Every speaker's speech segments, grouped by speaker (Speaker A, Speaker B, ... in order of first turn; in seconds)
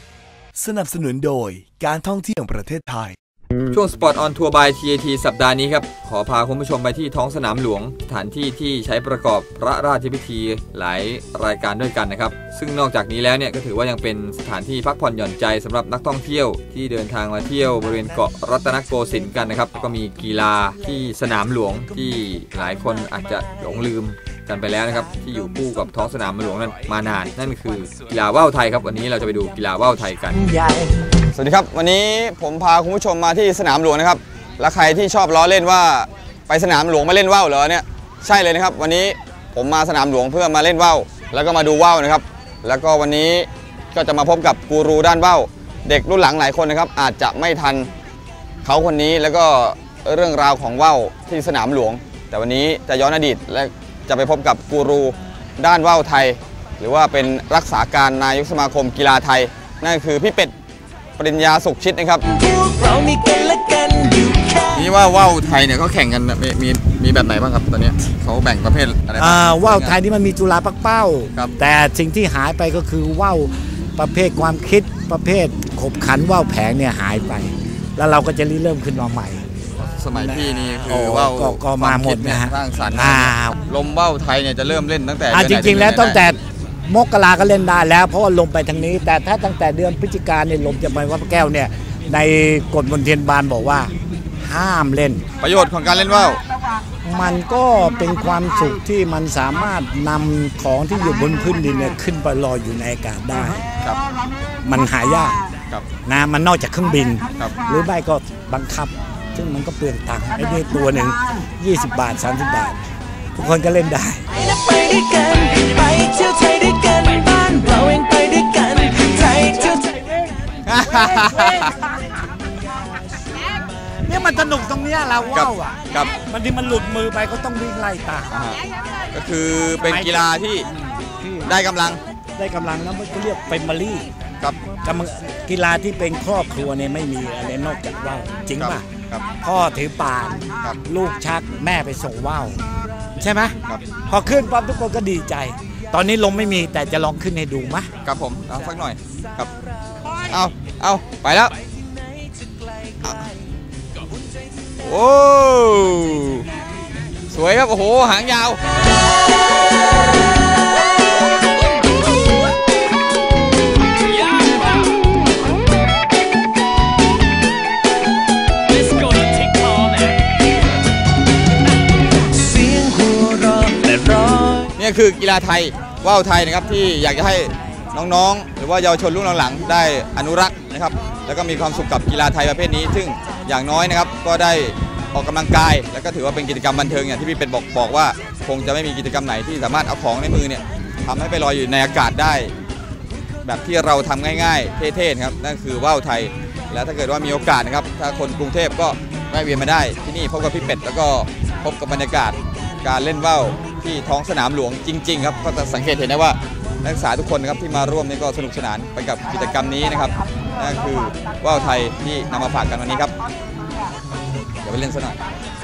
Speaker A: 0.6-3.2
Speaker B: 3.7-30.5
Speaker C: 30.5-30.9, 62.2-64.9, 114.3-119.9, 172.3-174.7
Speaker D: 31.3-47.9, 48.6-60.5, 61.2-62.2, 64.7-70.0, 79.8-86.2, 95.4-96.4, 120.7-121.7, 125.3-126.1, 128.3-128.6, 129.1-130.7, 131.4-132.0, 138.6-139.2, 148.0-149.5, 150.3-151.5, 154.8-156.4, 157.3-158.6, 174.8-192.5, 193.4-213.1, 214.6-215.2
Speaker E: 69.2-79.5, 80.1-83.6, 85.3-93.9, 94.4-95.2, 97.0-103.6, 104.6-105.4, 106.0-112.8, 113.3-114.2, 119.9-120.3, 120.9-121.8, 124.0-128.3, 129.8-131.5, 132.4-134.1, 134.8-138.9, 139.4-142.6, 143.2-143.6, 144.1-147.9